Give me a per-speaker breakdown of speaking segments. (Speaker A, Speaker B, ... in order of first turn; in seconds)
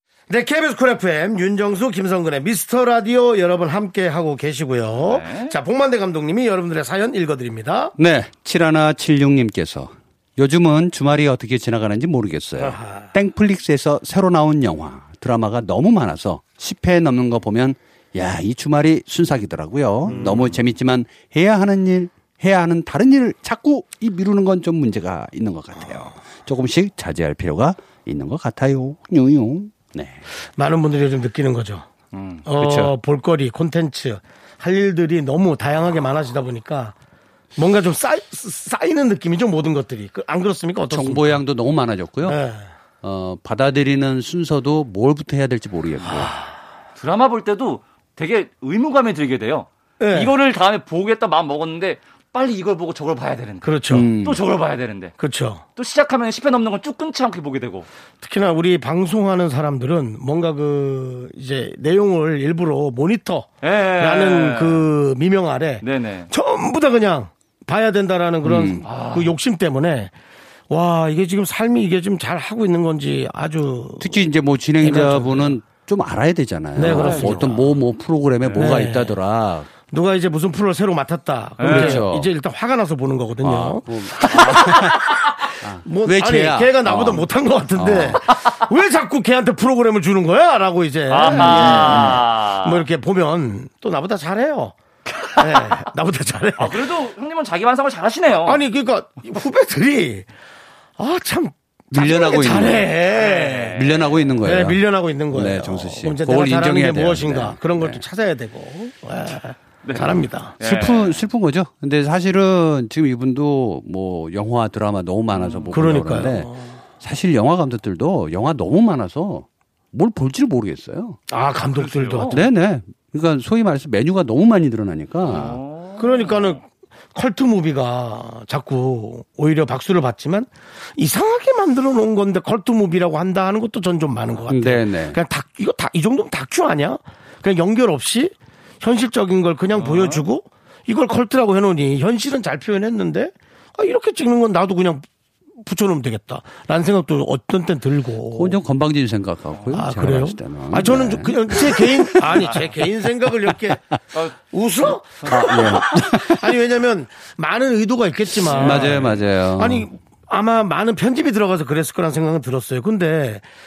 Speaker A: 0.3-8.0, 12.6-13.1, 20.0-20.6, 30.6-31.9, 32.5-37.0, 37.6-41.4, 42.2-42.7, 50.0-50.3, 53.6-54.1, 55.2-55.6, 58.2-70.1, 70.7-74.2, 74.8-75.6, 76.8-77.7, 78.5-79.2, 79.9-85.2, 85.8-94.8, 95.4-96.9, 98.5-100.3, 101.0-103.8, 104.4-110.6, 115.7-116.7, 121.3-122.5, 126.0-145.1, 145.6-148.6, 149.7-153.8, 154.4-163.4
Speaker B: 5.0-5.6, 47.0-55.1, 55.8-57.9, 63.6-64.9, 65.8-66.3, 68.8-69.3, 76.9-77.6, 78.4-78.8, 81.6-82.0, 84.3-85.4, 91.1-92.8, 95.1-95.8, 96.6-98.6, 103.1-104.3, 109.8-111.2, 115.3-115.9, 121.8-122.4, 125.2-126.6, 139.8-140.2, 152.4-152.7, 155.2-155.5, 158.5-159.2
Speaker C: 8.0-30.2, 32.5-32.9, 40.9-42.4, 43.0-46.3, 53.9-54.4, 68.4-68.8, 74.0-79.7, 81.6-82.3, 83.4-88.2, 91.2-92.2, 101.9-103.0, 103.8-108.0, 110.0-121.2, 122.3-125.6, 134.5-135.2, 148.3-152.4, 155.3-156.5, 158.5-159.9